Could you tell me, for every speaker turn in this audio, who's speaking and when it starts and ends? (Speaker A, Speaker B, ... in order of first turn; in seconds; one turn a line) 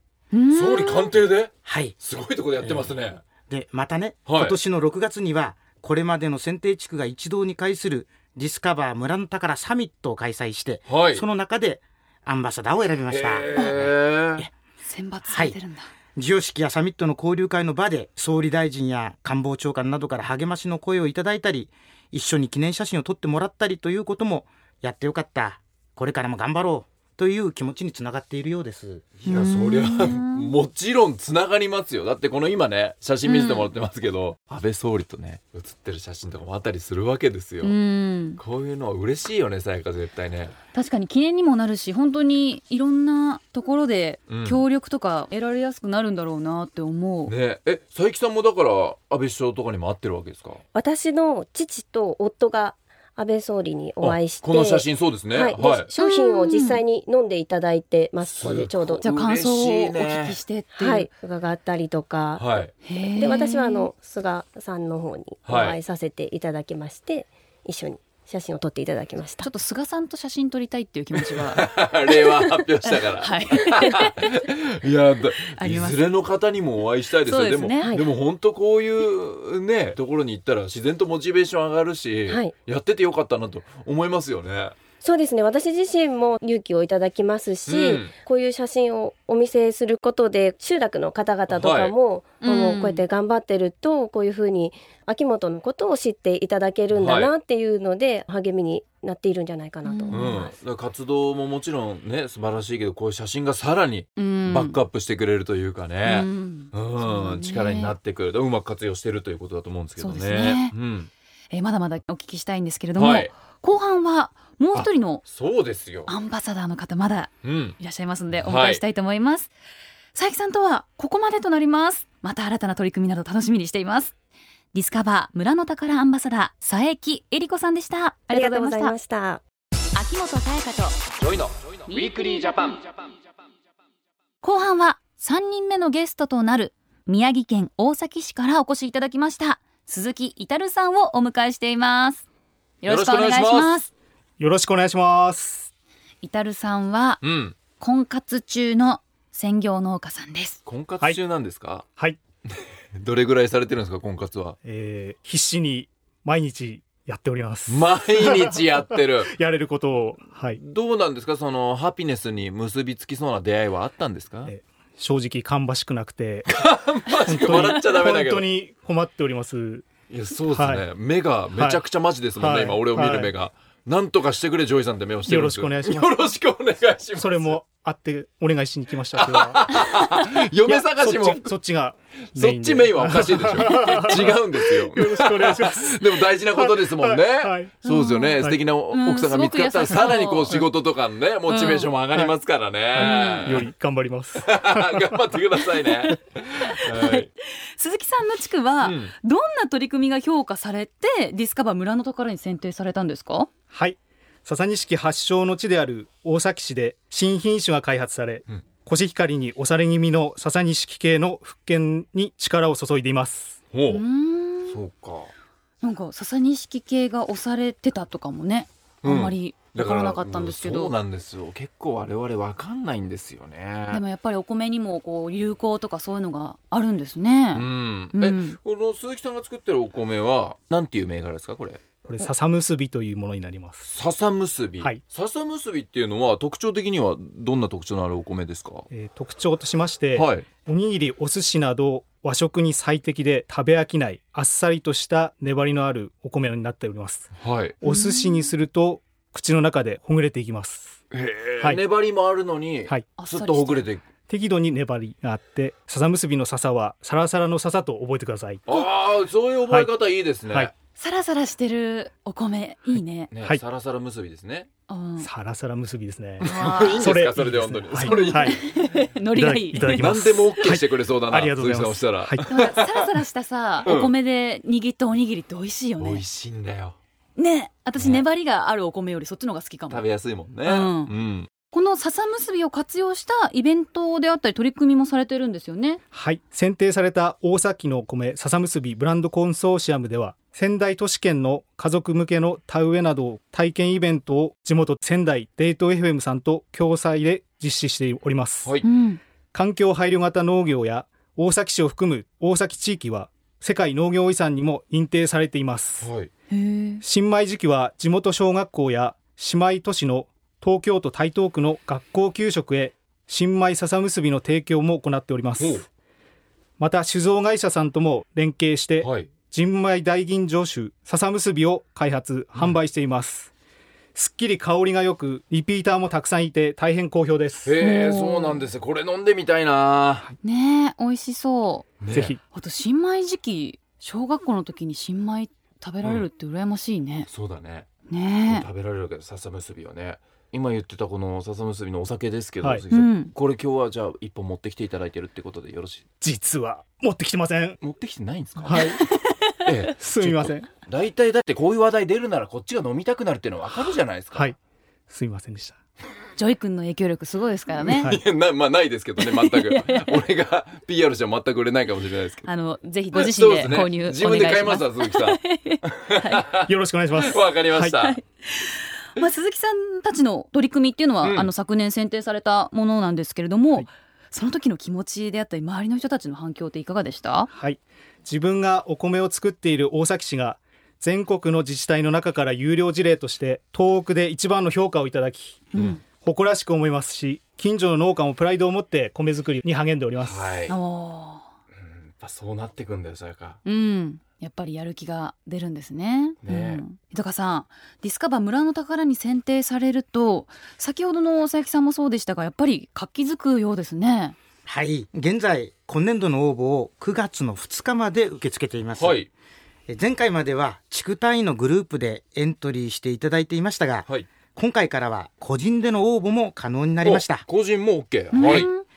Speaker A: 0.3-1.1
Speaker B: 0.5-3.2
Speaker C: 1.6-1.9
Speaker C: 3.4-14.5
Speaker B: 4.3-4.6
Speaker B: 10.9-11.2
Speaker B: 13.1-14.5
Speaker A: 13.5-13.8
Speaker A: 14.8-15.9
Speaker C: 15.2-15.6
Speaker C: 16.1-29.1
Speaker B: 29.2-37.7
Speaker A: 29.3-30.5
Speaker A: 33.2-33.7
Speaker A: 37.6-38.4
Speaker B: 38.4-40.5
Speaker A: 40.7-47.3
Speaker B: 44.3-44.6
Speaker B: 47.3-50.6
Speaker D: 50.7-59.0
Speaker B: 54.0-55.9
Speaker A: 56.0-56.8
Speaker B: 58.2-60.4
Speaker A: 59.0-61.1
Speaker D: 60.7-62.6
Speaker B: 62.4-62.7
Speaker A: 62.8-63.9
Speaker D: 63.1-69.5
Speaker B: 65.4-65.8
Speaker A: 69.4-71.7
Speaker B: 71.5-84.8
Speaker A: 72.8-74.2
Speaker A: 75.5-76.1
Speaker A: 77.2-77.9
Speaker D: 82.3-82.5
Speaker D: 85.0-100.5
Speaker B: 87.7-88.1
Speaker B: 91.5-91.9
Speaker A: 92.4-93.0
Speaker B: 96.9-97.3
Speaker A: 99.8-100.5
Speaker B: 100.1-111.1
Speaker A: 104.2-104.8
Speaker A: 106.0-107.9
Speaker A: 110.0-110.7
Speaker A: 111.5-115.2
Speaker B: 112.9-113.3
Speaker B: 114.7-116.1
Speaker A: 116.1-119.5
Speaker B: 117.4-117.8
Speaker B: 118.4-118.8
Speaker A: 120.1-124.1
Speaker A: 124.7-128.9
Speaker D: 128.3-129.4
Speaker A: 129.9-131.1
Speaker B: 131.2-132.8
Speaker A: 131.9-132.8
Speaker A: 134.4-142.2
Speaker A: 142.8-143.9
Speaker B: 142.8-143.8
Speaker E: 144.4-145.7
Speaker A: 146.2-147.2
Speaker B: 147.2-147.6
Speaker A: 147.8-150.6
Speaker B: 150.7-151.8
Speaker B: 152.5-154.6
Speaker E: 154.6-160.6
Speaker B: 157.7-159.3
Speaker B: 160.5-164.5
Speaker E: 164.4-166.5
Speaker B: 166.5-168.4
Speaker E: 167.2-169.9
Speaker B: 170.1-177.6
Speaker E: 170.5-170.8
Speaker E: 171.5-171.8
Speaker E: 172.3-173.3
Speaker E: 175.3-176.1
Speaker E: 177.2-179.6
Speaker B: 179.2-181.5
Speaker E: 180.7-187.8
Speaker B: 182.3-193.7
Speaker A: 187.8-190.7
Speaker A: 191.5-191.9
Speaker E: 192.9-195.4
Speaker A: 193.0-193.6
Speaker B: 194.4-197.3
Speaker A: 196.6-203.5
Speaker B: 198.8-199.1
Speaker E: 203.7-213.6
Speaker B: 213.7-214.0
Speaker A: 213.9-214.8
Speaker B: 214.7-215.3
Speaker A: 215.8-220.9
Speaker B: 219.0-224.0
Speaker A: 223.9-228.6
Speaker B: 227.5-231.8
Speaker E: 232.0-233.8
Speaker B: 233.8-238.8
Speaker E: 238.9-247.3
Speaker B: 240.1-240.5
Speaker B: 247.4-247.8
Speaker E: 247.8-250.9
Speaker A: 247.8-248.4
Speaker B: 251.1-254.0
Speaker A: 253.2-253.9
Speaker E: 254.3-258.7
Speaker B: 258.7-260.7
Speaker E: 260.4-260.7
Speaker A: 261.0-263.3
Speaker E: 262.9-263.6
Speaker B: 263.3-264.7
Speaker A: 264.9-265.3
Speaker E: 265.2-266.5
Speaker B: 266.4-268.6
Speaker A: 266.4-267.1
Speaker E: 267.0-268.6
Speaker A: 268.0-270.3
Speaker E: 269.3-272.4
Speaker B: 269.9-273.1
Speaker A: 272.4-276.2
Speaker B: 273.8-274.1
Speaker B: 276.0-277.0
Speaker A: 277.4-280.0
Speaker B: 278.0-278.2
Speaker B: 279.9-281.5
Speaker A: 280.6-281.1
Speaker A: 281.7-286.0
Speaker E: 286.1-298.8
Speaker A: 298.8-299.2
Speaker E: 299.5-306.1
Speaker B: 306.0-306.3
Speaker A: 306.5-307.0
Speaker E: 307.0-315.9
Speaker B: 315.6-315.8
Speaker E: 316.8-323.5
Speaker B: 319.0-319.3
Speaker E: 324.1-327.7
Speaker B: 327.6-330.3
Speaker A: 327.8-328.6
Speaker A: 330.4-331.9
Speaker B: 332.0-332.3
Speaker E: 332.1-332.4
Speaker A: 332.5-337.3
Speaker B: 337.3-337.9
Speaker A: 338.1-338.7
Speaker B: 338.5-346.1
Speaker A: 342.9-343.3
Speaker E: 346.2-347.8
Speaker B: 347.8-348.8
Speaker E: 348.7-349.0
Speaker B: 349.6-354.5
Speaker E: 350.0-350.7
Speaker E: 355.1-355.8
Speaker A: 356.4-358.2
Speaker B: 357.8-362.4
Speaker A: 359.2-360.2
Speaker A: 362.4-366.4
Speaker B: 363.1-365.4
Speaker B: 365.9-368.2
Speaker E: 366.7-368.0
Speaker A: 368.0-377.5
Speaker B: 371.2-371.5
Speaker E: 377.5-390.4
Speaker A: 385.7-386.0
Speaker B: 390.2-390.8
Speaker A: 390.7-391.5
Speaker B: 391.7-393.6
Speaker A: 393.6-404.4
Speaker B: 396.4-396.8
Speaker C: 404.7-409.2
Speaker B: 409.0-409.3
Speaker C: 409.9-417.4
Speaker B: 417.0-418.7
Speaker A: 418.3-418.8